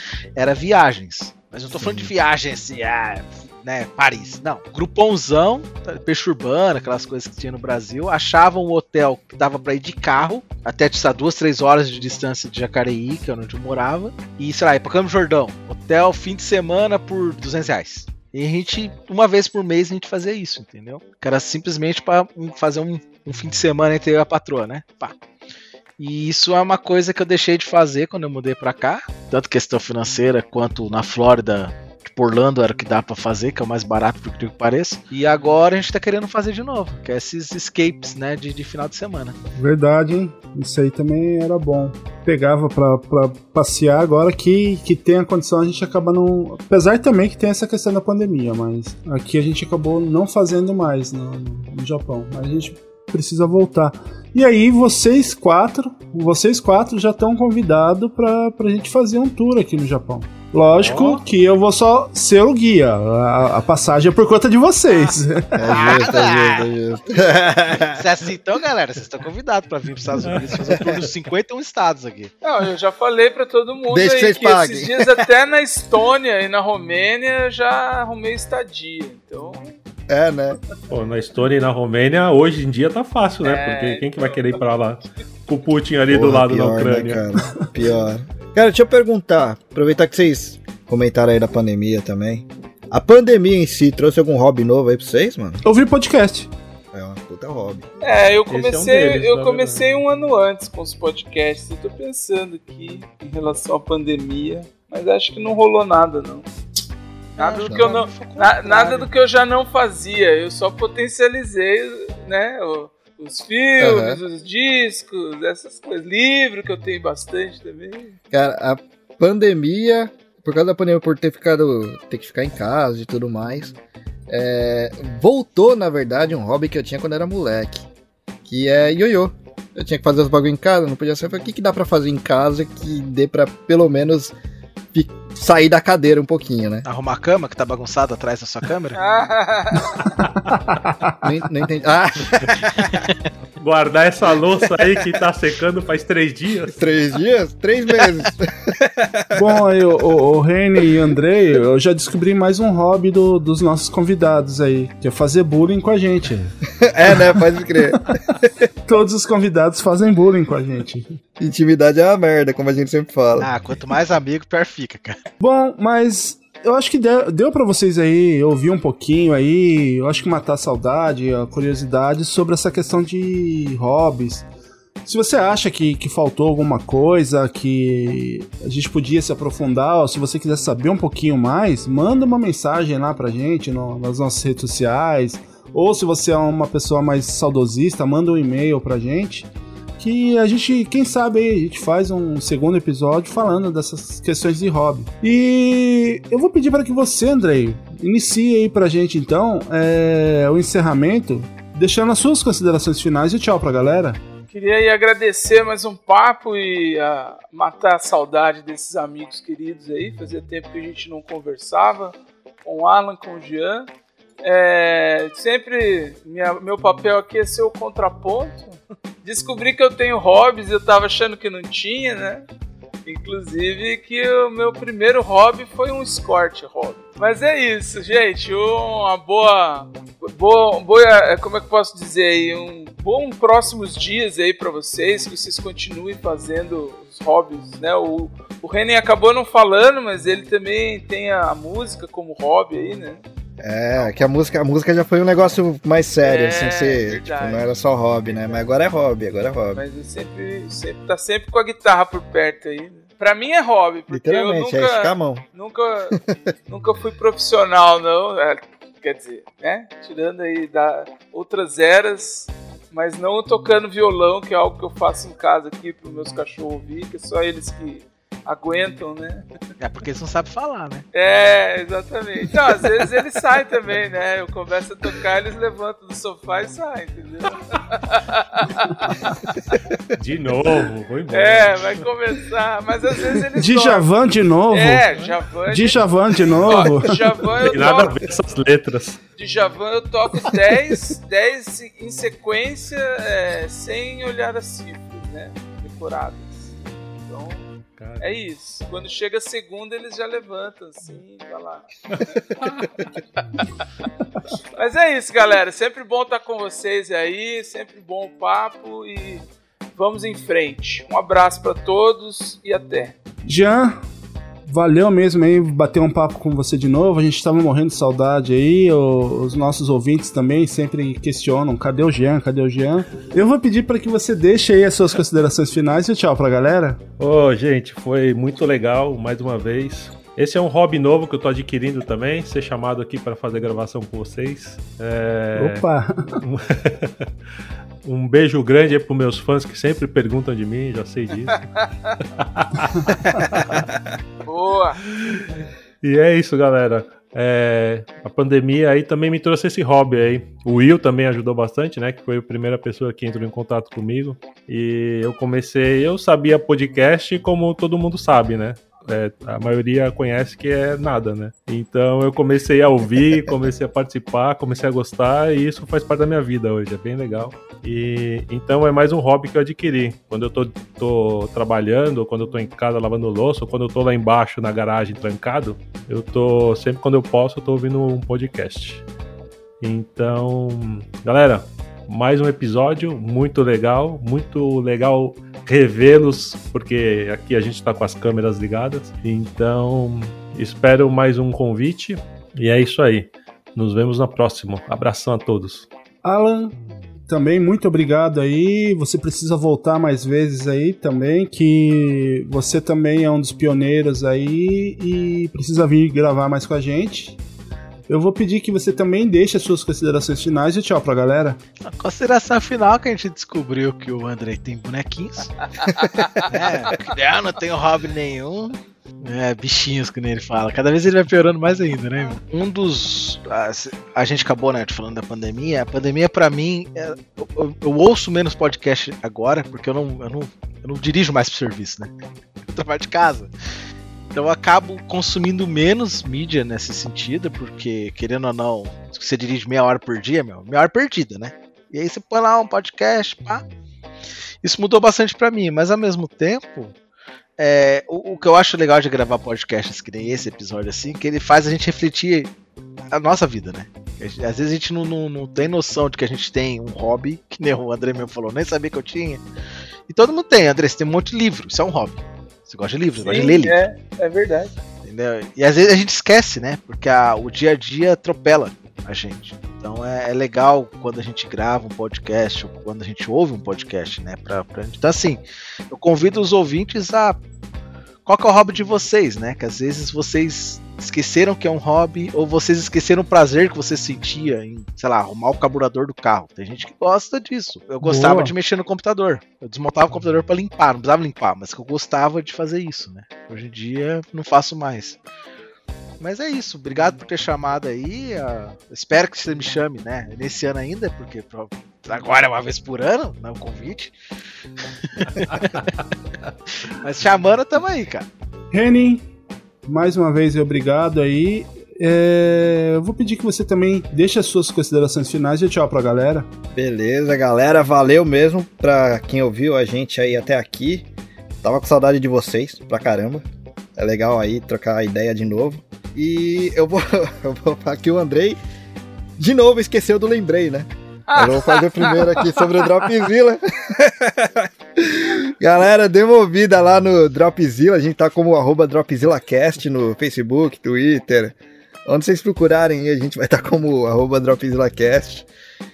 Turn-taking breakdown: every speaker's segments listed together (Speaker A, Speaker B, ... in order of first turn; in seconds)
Speaker A: 0.4-25.2, 26.0-39.4, 65.7-66.7, 67.9-72.3, 107.4-109.1, 136.9-139.0, 142.6-143.1, 163.4-165.2, 269.8-271.1, 411.8-415.7, 416.5-432.1, 432.7-433.5, 434.3-443.6, 444.6-446.9, 447.6-452.5, 453.1-459.4, 460.1-463.8, 465.0-477.4, 478.3-495.2, 496.2-504.1, 505.2-505.9, 506.7-508.3
Speaker B: 1.8-2.1, 65.6-68.0, 70.6-71.0, 73.9-75.2, 80.1-80.6, 86.1-95.6, 96.9-97.9, 107.7-107.9, 113.8-114.2, 118.3-123.8, 124.3-127.9, 128.5-134.4, 134.9-136.9, 141.2-142.9, 146.7-149.6, 156.8-158.7, 161.4-163.5, 243.6-249.8, 254.1-255.5, 256.1-256.4, 516.8-521.1, 521.6-523.5, 524.0-528.6, 529.4-545.5
Speaker C: 39.6-65.7, 95.6-96.5, 140.2-141.2, 149.3-156.5, 158.9-161.2, 165.4-174.5, 175.1-204.2, 283.6-285.0, 285.7-287.2, 313.4-314.0, 314.7-327.0, 335.6-336.4, 396.2-396.7, 397.3-407.4, 408.1-411.6, 488.0-488.5, 508.7-509.3, 509.9-516.5
Speaker D: 60.8-61.2, 70.2-70.6, 80.9-87.2, 98.5-100.0, 143.6-146.8, 280.2-282.0, 287.6-289.2, 298.0-298.4, 302.1-302.9, 327.2-335.9, 336.4-337.3, 338.0-341.7, 342.4-343.9, 345.1-379.0, 379.8-395.9
Speaker E: 72.4-79.8, 83.4-84.7, 98.0-106.5, 107.4-118.2, 139.0-139.8, 204.5-213.9, 214.4-222.5, 223.1-243.2, 246.2-247.8, 249.8-269.4, 271.1-279.8, 281.3-284.0, 284.7-286.0, 286.6-288.1, 289.4-297.7, 298.2-301.9, 304.8-309.4, 310.0-313.1, 344.4-345.0, 415.8-416.5, 463.2-464.7, 531.3-532.9